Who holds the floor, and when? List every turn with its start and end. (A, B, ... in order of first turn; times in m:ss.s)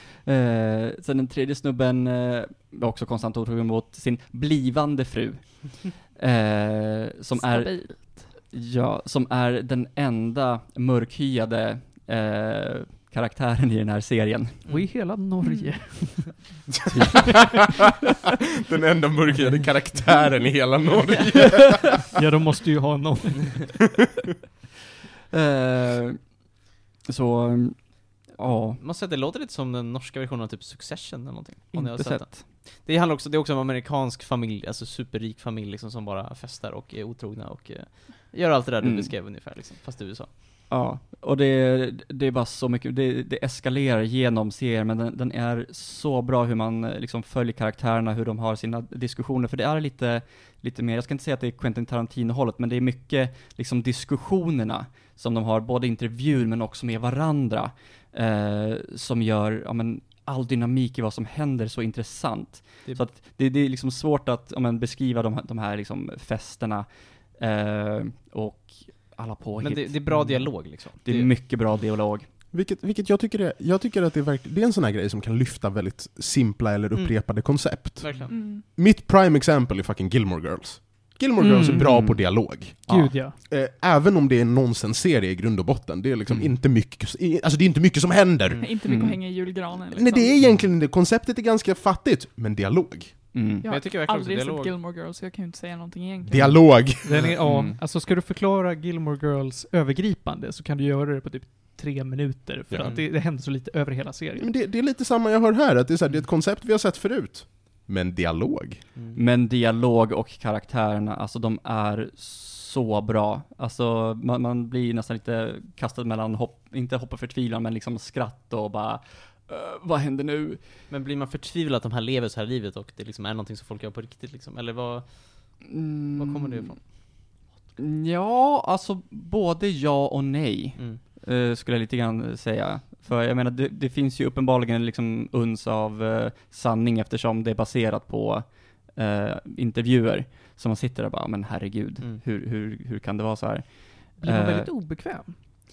0:00.2-0:14.6 A
0:07.4-0:08.3 B
0:14.7-0:14.9 C
0:14.7-0:16.5 B
0:17.0-0:17.6 A
0:17.0-0:17.4 D
0:18.7-0:22.0 D
0:21.6-0:23.8 B
0:25.3-0:26.4 A
0:27.1-0:28.8 A
0:28.8-0:40.3 C
0:31.7-0:32.4 A
0:38.8-0:39.1 A
0:40.7-1:12.3 A
1:09.6-1:11.4 C
1:12.5-1:28.6 D
1:16.9-1:18.4 C
1:18.3-1:18.6 E
1:21.4-1:22.1 B
1:21.6-1:22.2 A
1:22.9-1:23.4 B
1:28.4-1:28.7 C
1:28.6-1:30.4 E
1:28.9-1:29.2 A
1:29.9-1:33.2 D
1:33.3-1:33.6 A
1:33.6-1:36.7 E
1:33.7-1:34.7 C
1:36.3-1:37.3 D
1:37.0-1:44.5 B
1:37.4-1:37.8 A
1:42.7-1:43.0 D
1:42.8-1:43.1 C
1:44.4-1:48.9 D
1:49.1-2:00.7 A
2:00.9-2:06.8 C
2:05.7-2:06.7 A
2:07.8-2:24.7 A
2:10.8-2:11.0 C
2:24.2-2:25.4 B